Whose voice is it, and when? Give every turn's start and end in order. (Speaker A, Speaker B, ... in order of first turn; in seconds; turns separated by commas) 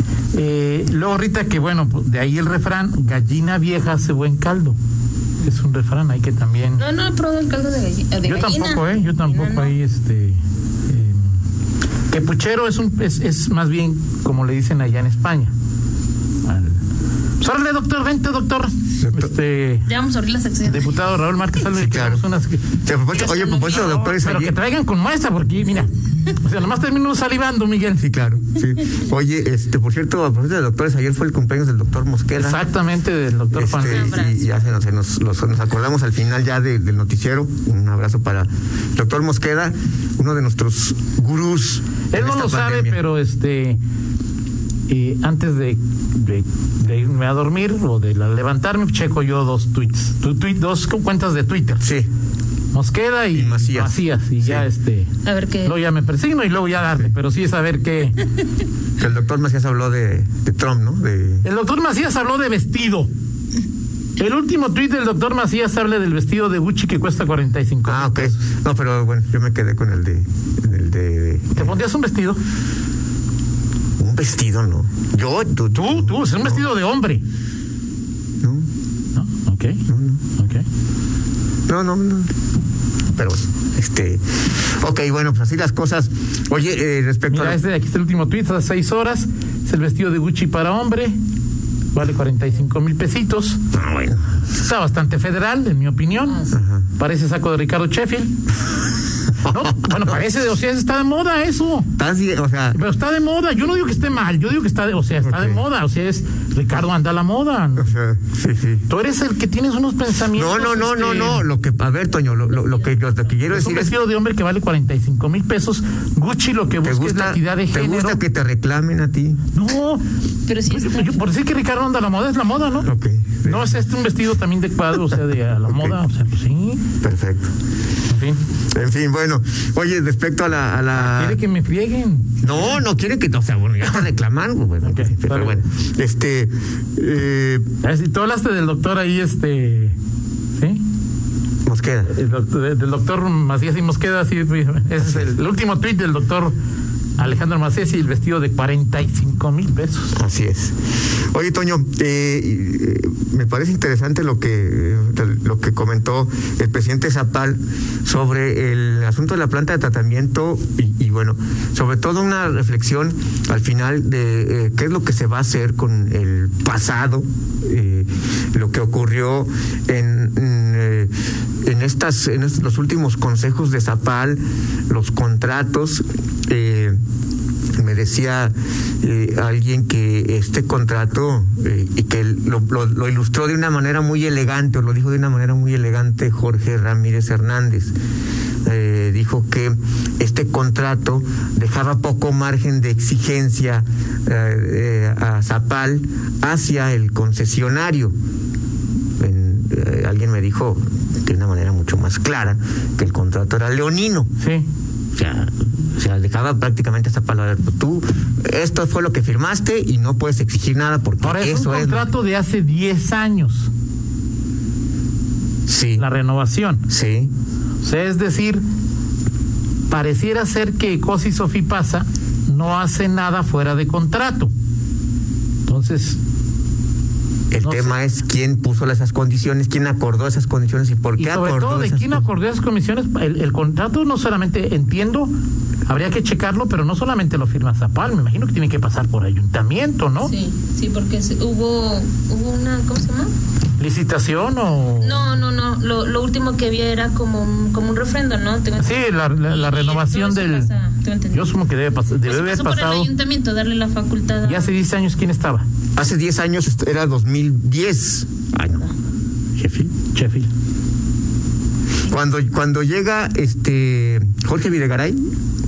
Speaker A: 0.3-4.8, Speaker A: 5.4-6.8, Speaker B: 6.8-9.8, Speaker A: 8.2-11.3, Speaker A: 12.1-15.5, Speaker A: 16.4-16.8, Speaker A: 17.4-19.9, Speaker C: 19.0-19.3, Speaker B: 19.9-21.0, Speaker A: 20.6-22.6, Speaker C: 21.6-24.6, Speaker B: 23.1-24.1, Speaker A: 24.0-28.0, Speaker C: 27.9-32.6, Speaker A: 32.4-34.1, Speaker C: 33.5-43.0, Speaker B: 33.8-34.5, Speaker A: 42.1-43.8, Speaker A: 44.9-51.9, Speaker C: 51.8-52.1, Speaker A: 52.7-55.1, Speaker C: 53.3-54.7, Speaker B: 55.2-55.8, Speaker A: 55.6-58.2, Speaker C: 59.0-61.5, Speaker A: 61.4-63.1, Speaker A: 64.2-68.4, Speaker C: 67.8-71.8, Speaker A: 71.5-72.4, Speaker C: 74.0-76.7, Speaker A: 75.7-77.2, Speaker C: 78.4-78.7, Speaker A: 79.2-79.8, Speaker C: 79.9-80.2, Speaker A: 80.3-80.7, Speaker C: 81.7-82.3, Speaker C: 83.1-84.2, Speaker C: 84.8-87.6, Speaker A: 87.3-91.2, Speaker A: 91.9-93.6, Speaker C: 93.7-94.2, Speaker A: 94.6-96.4, Speaker B: 96.2-96.6, Speaker C: 96.5-96.9, Speaker A: 97.0-98.3, Speaker C: 99.4-100.3, Speaker A: 99.4-101.9, Speaker C: 102.0-102.8, Speaker A: 102.7-107.9, Speaker C: 105.2-105.6, Speaker C: 107.8-108.8, Speaker A: 108.9-111.5, Speaker C: 110.3-114.0, Speaker A: 113.5-118.2, Speaker C: 116.8-119.4, Speaker A: 119.5-120.0, Speaker B: 120.5-121.2, Speaker A: 120.7-122.9, Speaker C: 122.8-123.8, Speaker A: 123.5-126.8, Speaker C: 125.7-126.0, Speaker C: 127.0-127.5, Speaker A: 128.1-128.4, Speaker C: 128.7-131.4, Speaker A: 130.9-132.8, Speaker C: 132.4-137.7, Speaker A: 134.8-135.6, Speaker A: 137.8-140.0, Speaker A: 140.6-140.8, Speaker C: 141.7-142.1, Speaker A: 142.1-146.5, Speaker C: 145.0-145.3, Speaker A: 147.2-150.1, Speaker C: 150.1-150.7, Speaker C: 151.3-171.1, Speaker C: 171.6-177.0, Speaker C: 177.8-187.9, Speaker C: 188.7-198.1, Speaker C: 199.2-204.3, Speaker A: 204.4-204.7, Speaker C: 205.2-212.1, Speaker A: 211.2-213.7, Speaker C: 215.7-216.0, Speaker A: 216.0-216.8, Speaker C: 216.9-217.3, Speaker A: 217.8-218.6, Speaker A: 219.9-224.5, Speaker A: 225.7-226.2, Speaker C: 227.5-232.3, Speaker A: 227.6-228.0, Speaker A: 231.2-235.3, Speaker A: 235.9-240.3, Speaker B: 240.2-243.3, Speaker A: 243.8-245.4, Speaker B: 245.0-251.5, Speaker A: 248.8-250.7, Speaker A: 251.3-253.1, Speaker B: 252.2-254.8, Speaker A: 254.4-255.7, Speaker C: 256.0-258.9, Speaker C: 259.6-259.9, Speaker A: 260.1-260.5, Speaker C: 262.1-265.2